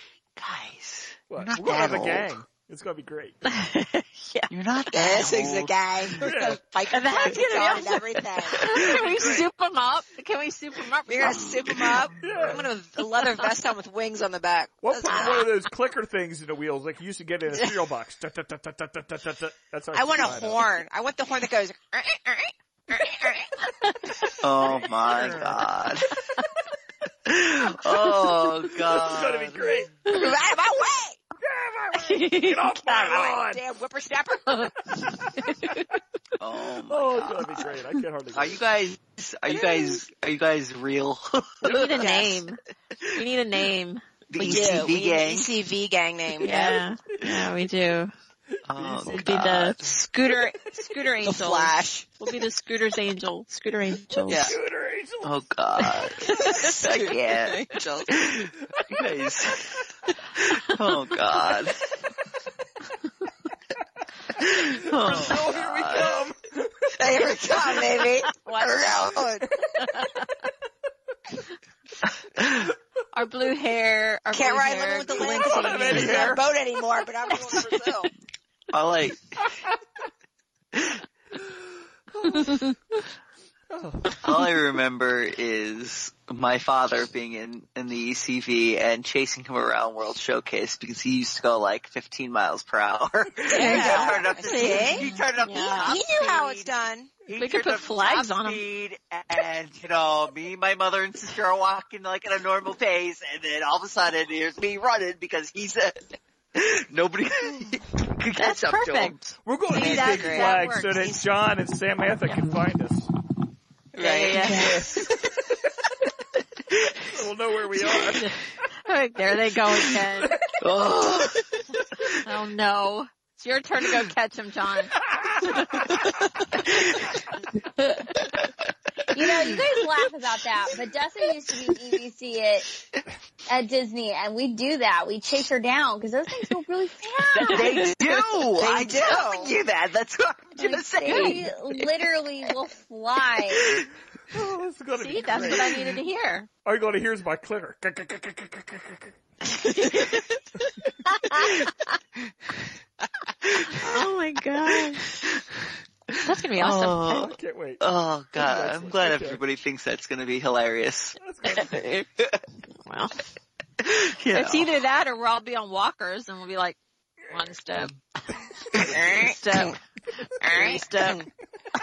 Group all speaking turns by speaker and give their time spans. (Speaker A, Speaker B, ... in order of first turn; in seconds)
Speaker A: 0.4-2.3, 4.5-6.2, 11.2-12.0, 24.4-26.1, 27.3-29.9, 36.4-37.6, 38.3-42.1, 44.3-45.5, 48.7-50.0, 54.3-54.5, 55.2-62.0, 64.4-66.3, 72.4-72.7, 78.7-79.5, 80.7-81.0, 84.2-96.7, 97.2-106.0, 106.5-109.2, 114.3-115.1, 116.8-117.1, 120.5-122.1, 126.7-127.1, 129.2-129.7, 137.3-141.6, 143.5-143.9, 153.4-153.8, 155.1-155.4, 156.1-161.2, 163.8-164.7
Speaker B: 1.3-3.4, 6.2-6.6, 8.9-9.5, 12.2-12.7, 14.8-20.6, 24.8-25.6, 28.9-29.9, 31.4-33.6, 35.0-35.8, 36.9-38.6, 48.7-49.3, 54.3-55.3, 64.4-66.9, 75.2-76.5, 82.1-82.7, 83.7-84.4, 109.4-113.1, 114.3-115.5, 117.1-118.3, 144.3-146.0, 146.6-149.1, 157.1-157.8, 158.3-159.4, 161.2-161.8
Speaker C: 3.5-4.5, 6.9-12.0, 23.6-24.2, 31.9-32.8, 34.5-35.8, 41.6-42.6, 43.1-44.8, 46.4-48.1, 49.1-54.5, 69.8-70.3, 73.1-76.4, 82.3-82.7, 93.5-95.2, 97.3-98.6, 108.3-111.1, 114.0-114.8, 117.8-120.4, 122.2-124.9, 125.4-125.8, 137.4-137.8, 141.1-141.4, 145.0-146.5, 149.5-150.2, 151.0-151.7, 153.7-155.2, 156.2-157.1, 161.5-161.7, 162.8-163.2, 164.3-166.8, 167.3-167.9, 168.8-169.8, 170.4-171.2
Speaker D: 4.9-8.8, 11.1-15.5, 19.9-23.5, 30.1-31.2, 32.8-34.7, 41.9-42.4, 44.4-46.8, 50.1-50.5, 51.2-52.1, 56.4-58.2, 67.0-69.5, 74.3-78.1, 93.5-97.1, 109.7-111.2, 113.9-114.6, 138.6-139.5, 168.8-169.8, 170.4-171.2
Speaker E: 95.5-95.8, 129.1-132.7, 133.5-138.1, 140.6-143.7